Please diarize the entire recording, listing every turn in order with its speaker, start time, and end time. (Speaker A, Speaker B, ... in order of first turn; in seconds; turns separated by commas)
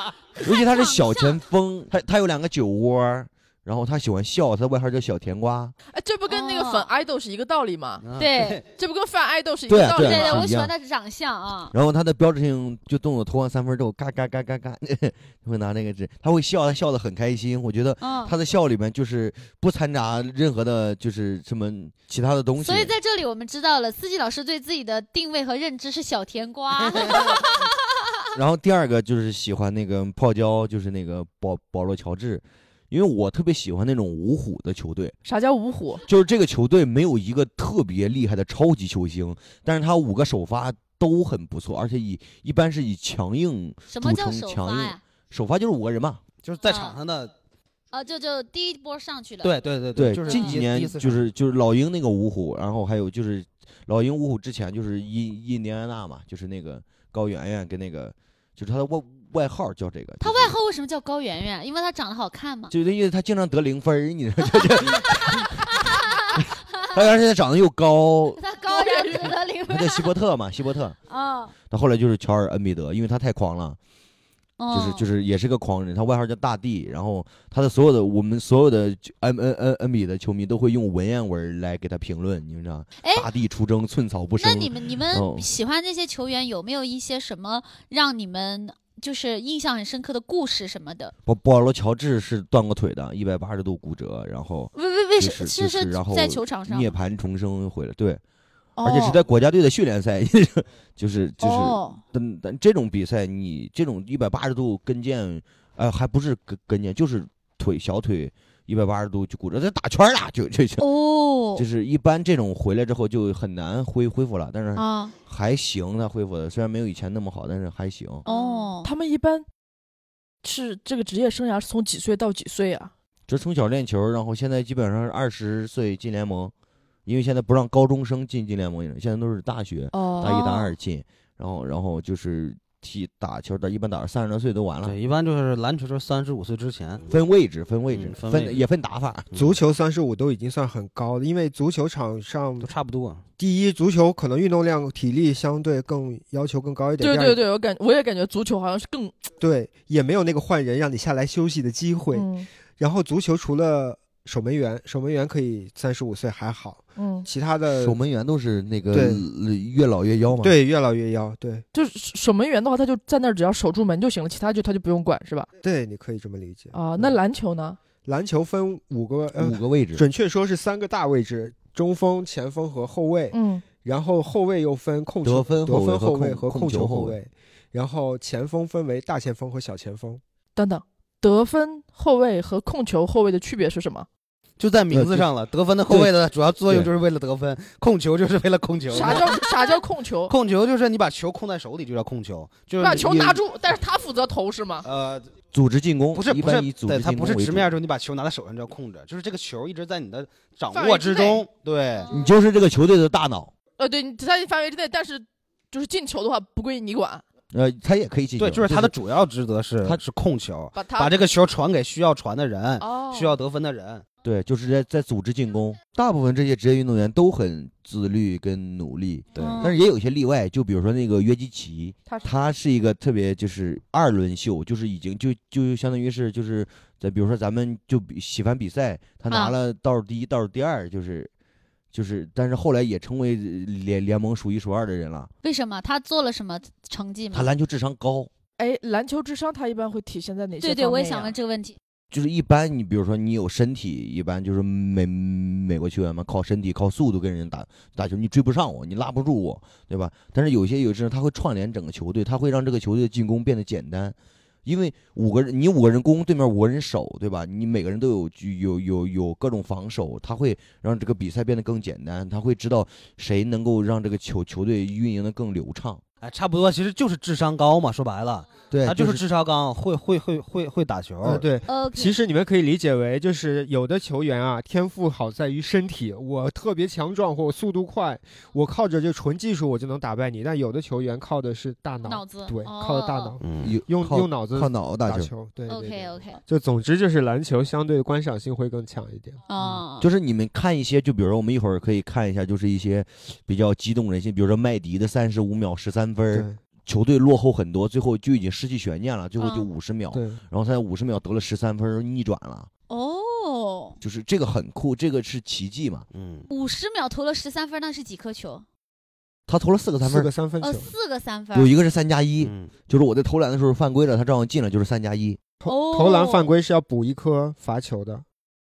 Speaker A: 0.4-5.7, Speaker B: 0.4-1.4, Speaker C: 5.9-8.0, Speaker B: 6.3-6.9, Speaker D: 8.0-8.6, Speaker B: 8.2-8.6, Speaker C: 8.6-10.5, Speaker A: 9.7-10.7, Speaker B: 9.9-11.7, Speaker A: 11.7-22.9, Speaker B: 18.0-18.3, Speaker B: 22.6-28.3, Speaker A: 26.8-27.5, Speaker A: 28.4-35.1, Speaker C: 35.2-36.0, Speaker A: 36.1-46.2, Speaker B: 43.9-45.0, Speaker D: 46.4-47.3, Speaker B: 46.6-47.0, Speaker B: 47.9-49.6, Speaker D: 49.4-51.2, Speaker A: 50.0-60.5, Speaker B: 50.2-50.6, Speaker B: 60.2-62.7, Speaker A: 62.7-68.4, Speaker B: 64.6-67.1, Speaker B: 68.4-70.1, Speaker C: 68.7-69.3, Speaker A: 69.7-71.0, Speaker B: 71.1-71.5, Speaker A: 71.6-73.8, Speaker B: 74.6-75.1, Speaker A: 74.7-85.5, Speaker B: 83.0-83.3, Speaker B: 84.4-91.1, Speaker A: 91.2-98.2, Speaker B: 94.7-97.0, Speaker B: 98.8-99.2, Speaker A: 98.8-110.9, Speaker B: 101.4-102.0, Speaker B: 110.8-111.6, Speaker A: 111.5-118.2, Speaker B: 114.7-115.1, Speaker B: 118.2-118.9, Speaker C: 118.3-119.4, Speaker C: 120.4-122.9, Speaker A: 123.3-126.5, Speaker A: 127.0-134.9, Speaker C: 129.9-130.7, Speaker B: 130.3-130.6, Speaker D: 134.8-137.1, Speaker A: 137.1-139.3, Speaker D: 137.9-138.6, Speaker E: 139.3-142.7, Speaker D: 142.6-143.2, Speaker E: 143.4-147.4, Speaker C: 147.0-149.1, Speaker E: 149.4-152.3, Speaker C: 152.1-152.5, Speaker E: 152.8-158.0, Speaker C: 157.0-157.3, Speaker A: 157.8-160.5, Speaker E: 158.9-159.2, Speaker E: 160.4-161.6, Speaker C: 161.7-165.5, Speaker E: 165.6-167.2, Speaker C: 166.7-167.8, Speaker E: 168.0-180.2, Speaker A: 169.3-170.0, Speaker C: 173.3-173.6, Speaker A: 175.2-177.2, Speaker C: 180.6-184.1, Speaker D: 184.6-189.3, Speaker A: 184.9-185.3, Speaker A: 185.9-186.1, Speaker C: 188.9-190.3, Speaker D: 190.3-193.3, Speaker C: 192.8-194.8, Speaker A: 193.1-193.4, Speaker D: 194.8-195.3, Speaker A: 195.5-197.7, Speaker D: 196.1-202.1, Speaker C: 200.7-201.5, Speaker B: 202.0-202.3, Speaker A: 202.1-203.5, Speaker C: 203.8-207.2, Speaker A: 207.5-208.9, Speaker D: 208.4-214.0, Speaker C: 210.7-211.1, Speaker C: 212.8-213.4, Speaker A: 214.2-231.3, Speaker D: 219.3-219.7, Speaker B: 219.4-219.8, Speaker C: 222.1-222.3, Speaker B: 229.3-229.6, Speaker A: 231.9-235.3, Speaker B: 235.4-237.5, Speaker A: 237.3-238.3, Speaker C: 238.6-241.3, Speaker B: 240.6-241.8, Speaker A: 242.1-266.0, Speaker D: 266.2-271.4, Speaker A: 268.7-269.2, Speaker E: 271.2-289.4, Speaker B: 271.7-272.1, Speaker B: 282.0-283.4, Speaker D: 283.4-283.8, Speaker A: 283.6-285.3, Speaker B: 285.7-286.4, Speaker B: 289.5-290.1, Speaker A: 290.0-302.7, Speaker E: 296.3-296.6, Speaker B: 299.4-299.7, Speaker E: 300.1-300.4, Speaker B: 302.9-304.0, Speaker A: 304.0-306.1, Speaker D: 306.1-306.5, Speaker B: 306.5-308.6, Speaker A: 309.5-310.3, Speaker E: 310.0-310.9, Speaker B: 310.6-311.7, Speaker A: 311.5-315.4, Speaker D: 312.4-312.7, Speaker E: 315.6-318.2, Speaker B: 315.6-316.5